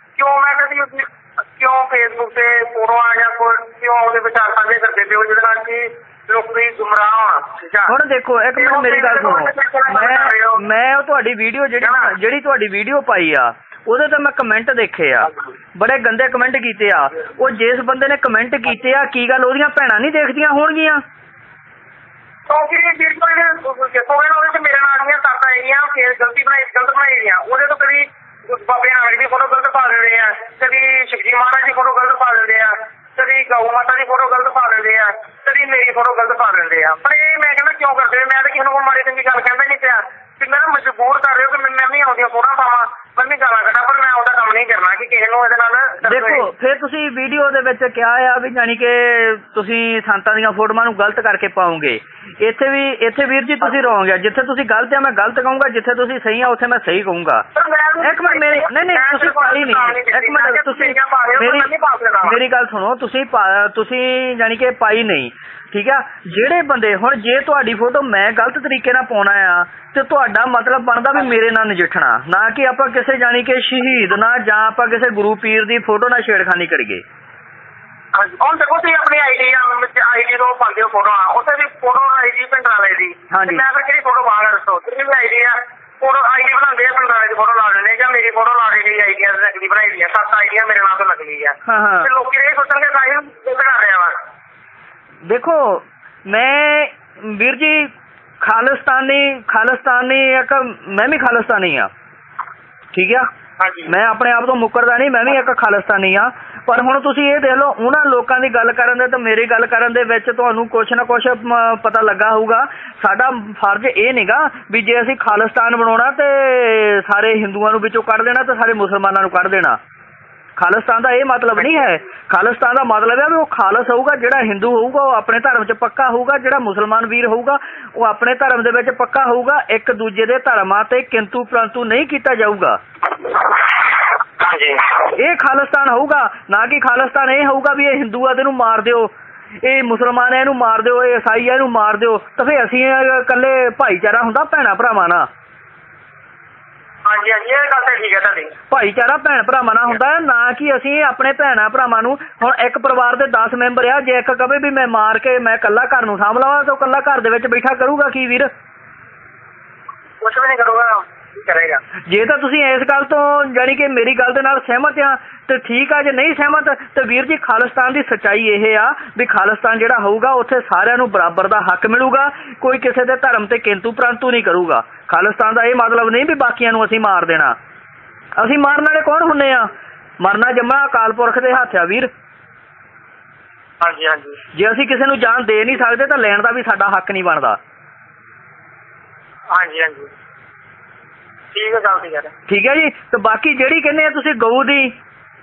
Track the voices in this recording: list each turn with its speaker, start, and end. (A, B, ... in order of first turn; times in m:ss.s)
0:00.2-0:07.9 A
0:07.9-0:21.0 B
0:08.6-0:10.6 A
0:11.8-0:12.1 A
0:22.5-0:46.5 A
0:46.0-0:57.4 B
0:57.5-1:02.4 A
0:58.0-1:01.7 B
1:02.2-1:17.0 B
1:18.1-1:34.2 A
1:23.3-1:23.6 B
1:31.6-1:32.1 B
1:35.2-1:41.9 B
1:42.9-1:43.3 B
1:43.6-1:43.9 A
1:43.9-1:59.8 B
2:00.6-2:12.8 B
2:01.6-2:01.9 A
2:14.4-2:14.9 A
2:15.1-2:19.1 B
2:19.6-2:25.3 B
2:27.0-2:28.6 A
2:28.7-2:38.5 B
2:40.2-2:41.8 A
2:42.1-2:57.6 B
2:58.4-3:02.1 B
3:03.8-3:04.4 A
3:04.5-3:07.6 B
3:09.5-3:10.1 A
3:11.5-3:12.3 A
3:12.5-3:14.9 B